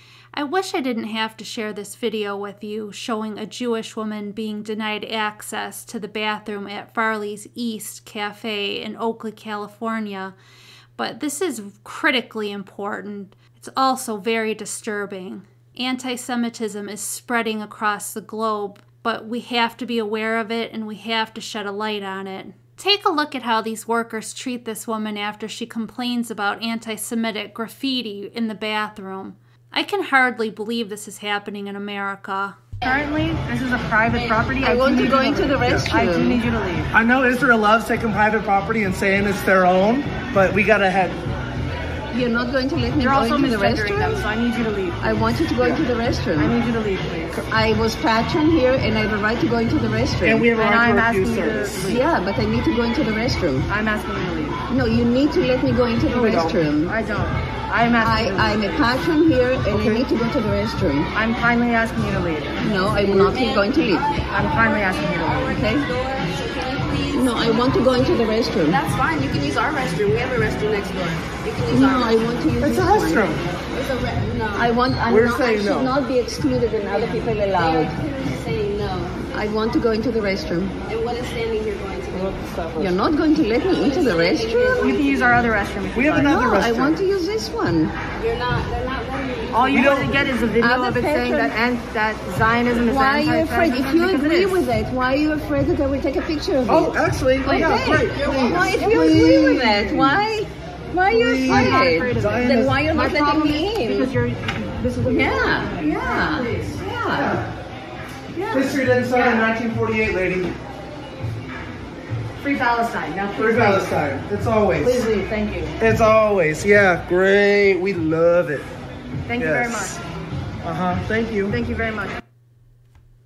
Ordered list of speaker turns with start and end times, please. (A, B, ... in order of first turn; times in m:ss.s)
0:00.3-0:10.3 A
0:11.0-0:32.6 A
0:32.8-0:36.9 B
0:34.6-0:36.4 C
0:36.9-0:41.2 D
0:42.1-0:44.2 C
0:43.0-0:45.2 B
0:45.0-0:46.5 C
0:46.4-0:47.4 B
0:47.5-0:50.5 C
0:50.2-0:51.9 D
0:50.5-0:52.0 B
0:51.8-0:53.7 C
0:53.7-0:54.6 B
0:54.7-0:56.9 C
0:56.1-0:58.6 B
0:56.2-0:56.5 D
0:58.0-1:01.1 C
0:59.7-1:00.0 D
1:01.1-1:02.6 B
1:02.6-1:04.1 C
1:03.0-1:04.4 E
1:04.3-1:05.6 B
1:05.2-1:12.2 E
1:05.4-1:05.9 C
1:07.1-1:08.8 C
1:11.7-1:13.4 C
1:12.6-1:13.4 D
1:13.7-1:14.8 E
1:14.5-1:18.0 C
1:15.1-1:16.0 D
1:17.2-1:19.2 E
1:19.2-1:20.7 C
1:20.9-1:22.4 E
1:22.2-1:22.9 D
1:22.8-1:25.0 C
1:23.6-1:25.5 E
1:24.8-1:26.4 B
1:25.9-1:27.0 D
1:26.3-1:27.9 C
1:28.2-1:29.8 E
1:29.5-1:34.6 B
1:29.7-1:30.3 D
1:30.6-1:31.6 C
1:32.8-1:44.1 C
1:36.7-1:40.2 D
1:41.1-1:42.8 D
1:41.4-1:46.7 B
1:44.9-1:47.4 C
1:46.6-1:47.5 D
1:48.4-1:49.5 B
1:48.5-1:50.5 D
1:52.4-1:53.9 B
1:53.4-1:55.1 D
1:54.8-1:55.8 B
1:55.8-1:58.7 D
1:59.3-2:00.0 B
1:59.4-2:00.0 D
2:00.6-2:01.6 D
2:01.5-2:02.2 B